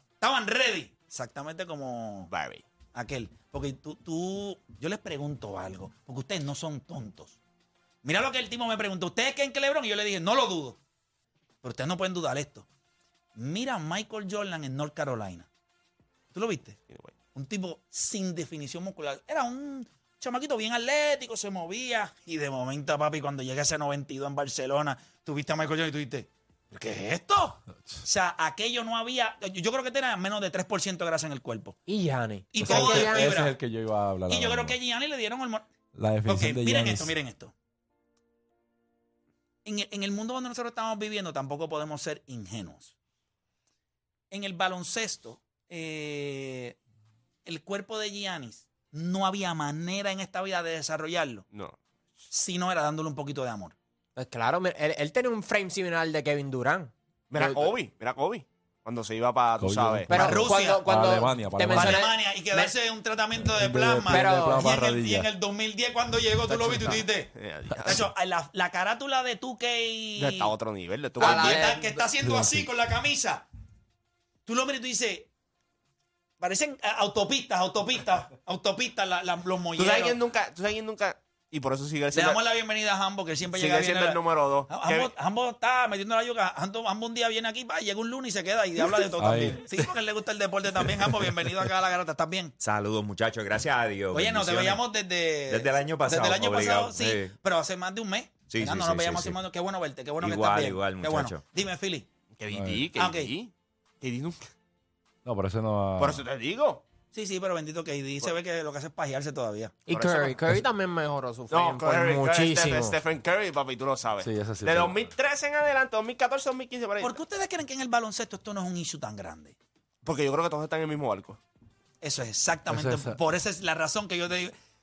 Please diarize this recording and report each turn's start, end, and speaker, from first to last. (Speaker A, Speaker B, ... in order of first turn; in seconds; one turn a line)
Speaker A: 0.2-2.3
Speaker B: 2.3-2.6
Speaker A: 2.9-7.4
Speaker A: 8.0-10.8
Speaker A: 11.6-12.7
Speaker A: 13.4-15.5
Speaker A: 16.3-16.8
Speaker A: 17.4-31.8
Speaker C: 31.9-33.3
Speaker A: 32.5-33.6
Speaker D: 32.6-34.8
Speaker A: 34.3-35.6
Speaker D: 36.0-37.1
Speaker A: 36.3-37.5
Speaker A: 39.6-43.0
Speaker A: 44.3-46.8
Speaker A: 47.5-51.5
Speaker B: 51.5-51.8
Speaker A: 52.3-53.8
Speaker C: 54.2-57.7
Speaker B: 57.3-60.2
Speaker D: 59.6-62.0
Speaker C: 60.1-62.7
Speaker A: 60.1-60.9
Speaker A: 61.7-67.3
Speaker D: 63.4-65.3
Speaker C: 64.1-64.7
Speaker B: 67.3-68.0
Speaker D: 67.7-68.0
Speaker A: 67.8-70.5
Speaker B: 70.2-71.8
Speaker C: 71.2-71.8
Speaker A: 71.2-73.5
Speaker D: 72.2-72.7
Speaker A: 74.5-75.3
Speaker A: 76.4-80.2
Speaker B: 79.8-82.4
Speaker A: 82.1-92.5
Speaker B: 83.5-85.1
Speaker D: 89.2-89.9
Speaker D: 90.8-91.7
Speaker E: 92.6-94.8
Speaker A: 94.1-102.1
Speaker E: 95.5-97.3
Speaker E: 98.5-99.4
Speaker E: 100.2-101.4
Speaker B: 102.4-104.5
Speaker D: 102.5-102.9
Speaker A: 103.0-103.3
Speaker D: 105.2-106.2
Speaker B: 106.0-106.8
Speaker A: 107.1-109.8
Speaker C: 109.9-113.0
Speaker B: 109.9-110.4
Speaker B: 111.5-117.2
Speaker D: 114.2-115.0
Speaker A: 117.0-119.5
Speaker B: 120.0-121.4
Speaker A: 122.0-124.5
Speaker D: 122.7-123.2